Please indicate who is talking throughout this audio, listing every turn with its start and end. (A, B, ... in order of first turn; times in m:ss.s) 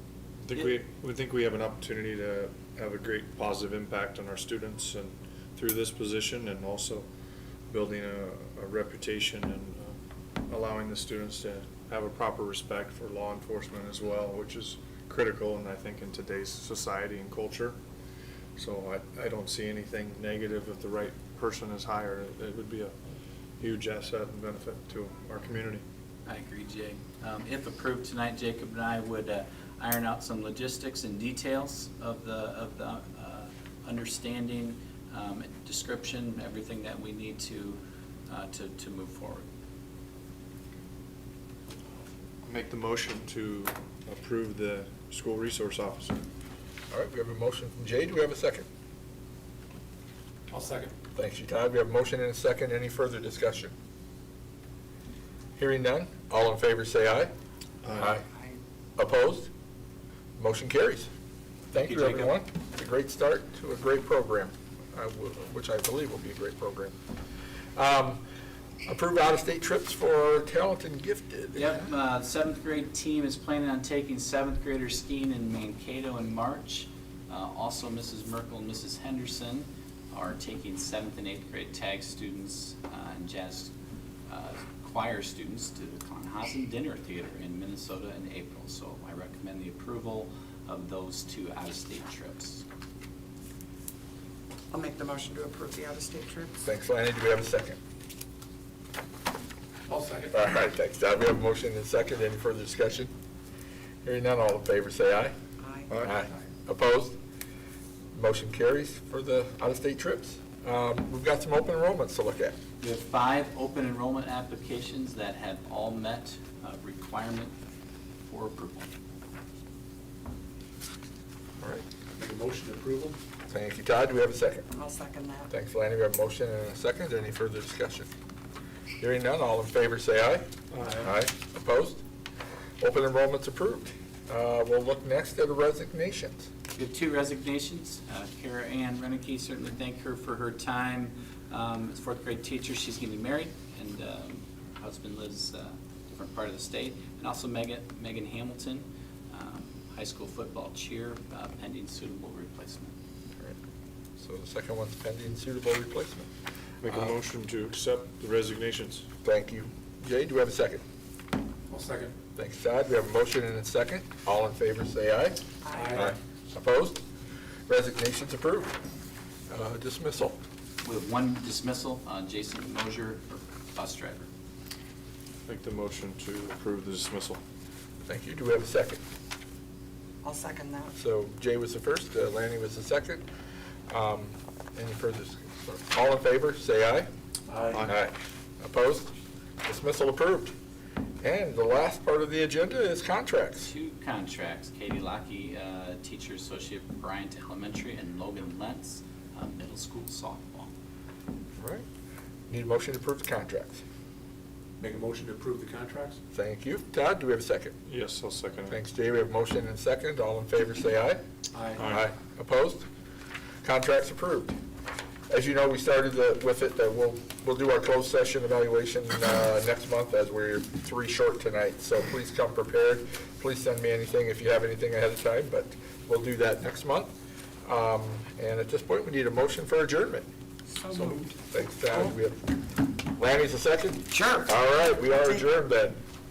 0:00.4-0:07.1 A
0:07.7-0:17.8 A
0:18.6-0:23.0 A
0:23.6-0:25.8 A
0:26.3-0:39.4 B
0:42.4-0:46.2 A
0:46.9-0:48.7 C
0:50.5-0:50.9 D
0:51.2-0:53.7 C
0:55.6-0:57.3 C
0:57.8-0:58.1 A
0:57.9-0:58.2 C
0:59.0-0:59.5 C
1:00.4-1:01.1 C
1:01.7-1:07.0 C
1:01.8-1:02.4 B
1:07.8-1:08.2 C
1:08.9-1:11.9 C
1:11.5-1:23.7 B
1:24.3-1:32.6 B
1:34.7-1:36.6 E
1:36.6-1:37.8 C
1:39.9-1:40.4 D
1:40.3-1:43.1 C
1:44.0-1:45.3 C
1:45.6-1:45.9 E
1:46.0-1:47.2 C
1:48.1-1:52.6 C
1:52.8-1:57.5 B
1:58.3-1:58.9 B
2:02.2-2:03.2 D
2:03.5-2:04.7 C
2:04.7-2:05.5 E
2:05.5-2:08.1 C
2:09.0-2:12.0 C
2:10.7-2:11.1 A
2:12.8-2:16.5 C
2:16.8-2:32.9 B
2:34.2-2:36.3 C
2:36.8-2:39.1 A
2:39.2-2:40.8 C
2:41.7-2:42.1 D
2:42.4-2:47.0 C
2:45.7-2:46.0 E
2:45.7-2:46.2 D
2:47.7-2:48.8 C
2:49.5-2:50.4 C
2:50.8-2:54.3 B
2:55.5-2:57.4 A
2:58.1-2:59.0 C
3:00.2-3:00.9 E
3:01.0-3:03.2 C
3:03.9-3:07.1 C
3:07.5-3:07.8 D
3:07.8-3:09.1 C
3:09.6-3:10.5 C
3:11.2-3:13.7 C
3:13.6-3:20.7 B
3:21.6-3:21.8 C
3:22.5-3:23.8 C
3:24.8-3:26.2 D
3:26.3-3:27.8 C
3:27.9-3:28.8 A
3:28.7-3:31.2 C
3:31.5-3:31.9 D
3:31.8-3:32.0 A
3:31.8-3:32.9 C
3:33.6-3:34.5 C
3:35.3-3:47.1 C
3:47.6-3:50.3 C
3:50.7-3:51.4 E
3:50.9-3:52.4 C
3:53.1-3:56.0 C
3:54.1-3:55.4 E